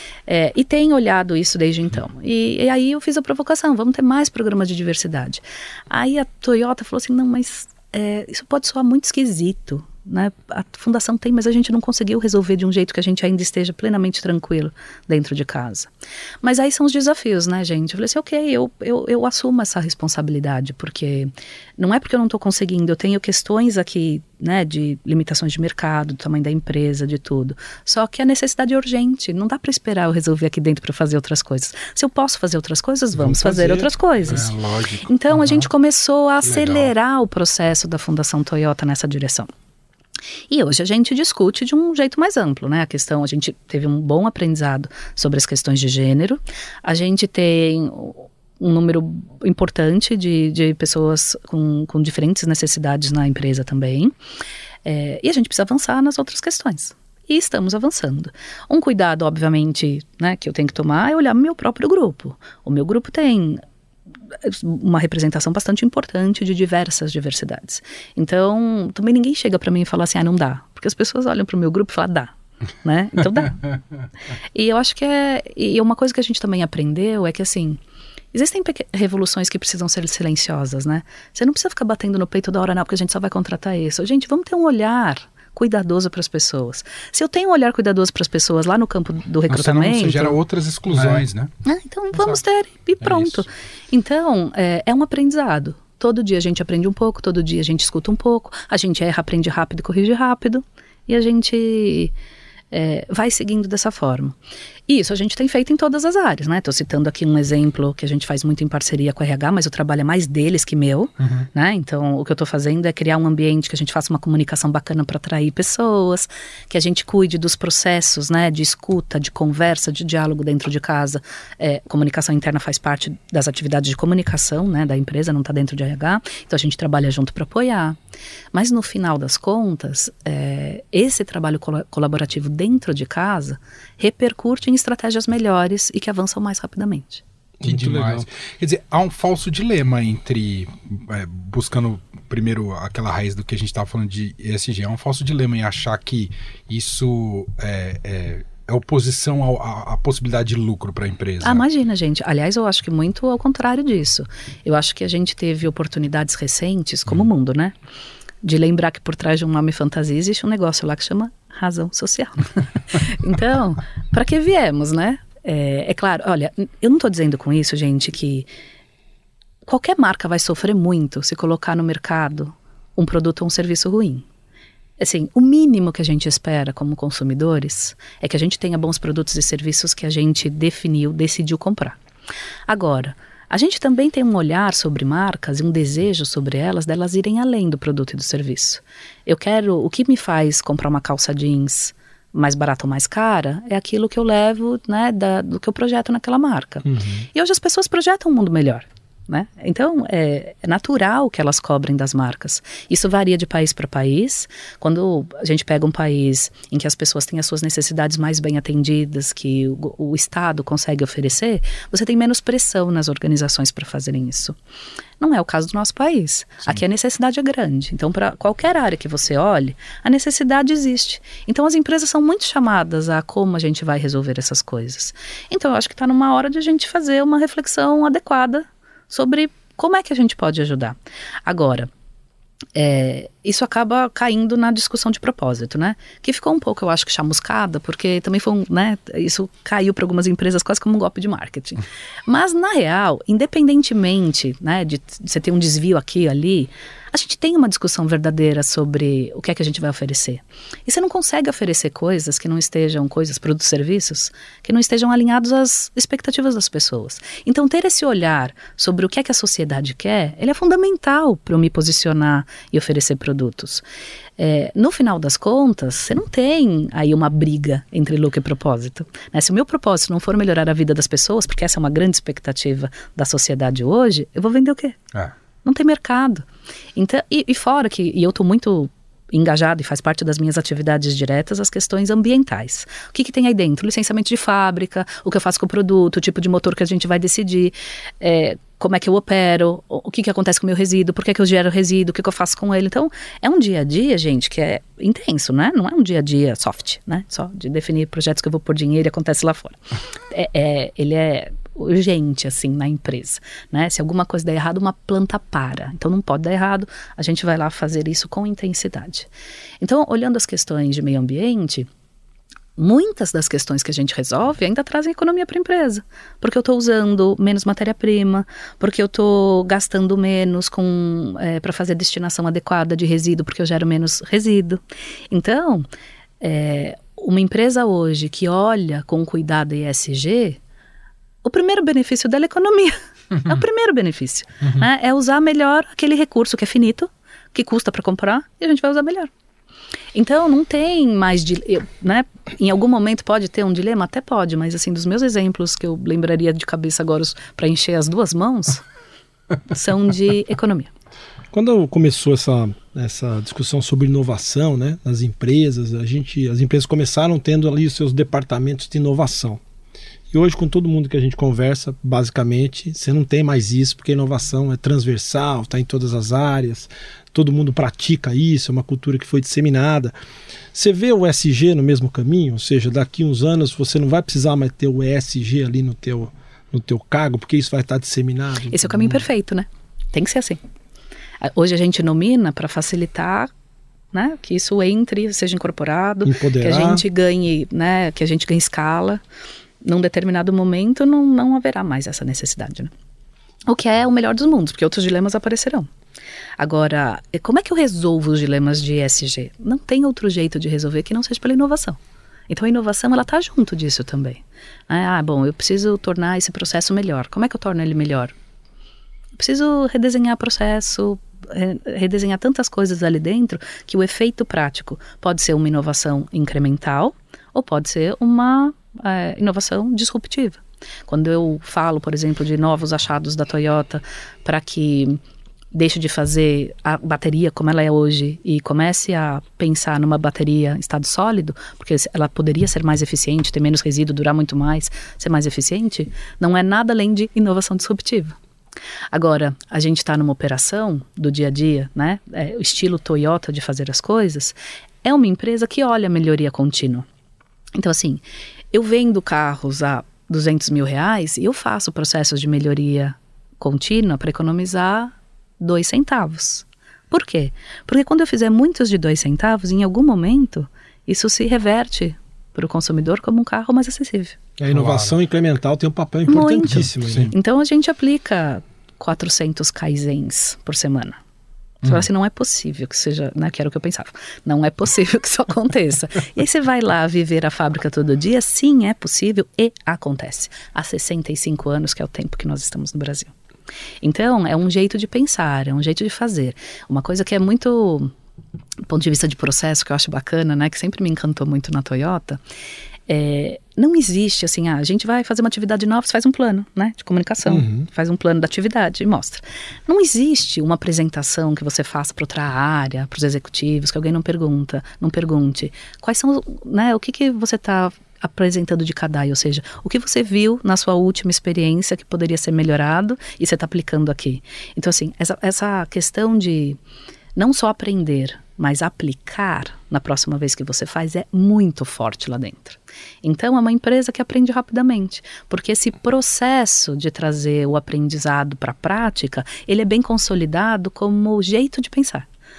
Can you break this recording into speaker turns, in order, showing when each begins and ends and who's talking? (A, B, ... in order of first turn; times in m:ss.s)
0:00.3-0:15.9 A
0:16.4-0:39.5 A
0:33.1-0:33.9 B
0:34.3-0:35.6 C
0:36.4-0:36.9 C
0:40.5-0:54.1 A
0:54.8-1:03.6 A
1:04.4-1:12.3 A
1:12.8-1:13.6 A
1:14.5-1:17.8 A
1:18.3-1:30.4 A
1:29.5-1:31.5 C
1:31.6-1:42.1 A
1:33.0-1:33.4 C
1:42.7-1:44.4 A
1:44.9-2:08.0 A
1:51.2-1:51.5 C
2:08.5-2:17.2 A
2:17.6-2:18.3 B
2:17.6-2:31.6 C
2:31.4-2:37.7 A
2:38.4-2:48.5 A
2:49.6-2:54.2 A
2:55.0-3:02.0 A
3:02.7-3:34.6 A
3:16.8-3:17.2 B
3:35.2-3:51.9 A
3:52.7-4:23.8 A
4:24.4-4:35.0 A
4:35.6-4:59.8 A
5:00.3-5:09.3 A
5:09.8-5:11.9 A
5:12.8-5:25.9 A
5:26.4-5:30.6 A
5:31.4-5:39.3 A
5:40.1-5:48.8 A
5:49.7-5:50.9 A
5:51.5-5:59.6 B
6:00.3-6:10.1 B
6:10.7-6:19.2 B
6:18.7-6:20.6 A
6:21.4-6:23.5 A
6:24.1-6:29.2 A
6:26.2-6:27.0 B
6:29.8-6:32.9 A
6:33.7-6:35.9 A
6:36.6-6:42.0 A
6:42.5-6:48.3 A
6:49.4-7:05.2 A
7:05.7-7:18.4 A
7:19.1-7:27.0 A
7:27.7-7:44.4 A
7:44.6-7:47.3 B
7:44.7-7:45.2 C
7:46.3-7:51.2 A
7:46.7-7:47.3 C
7:51.8-8:03.3 A
8:04.0-8:08.1 A
8:08.9-8:12.4 A
8:13.1-8:36.8 A
8:17.4-8:17.8 B
8:37.4-8:52.3 A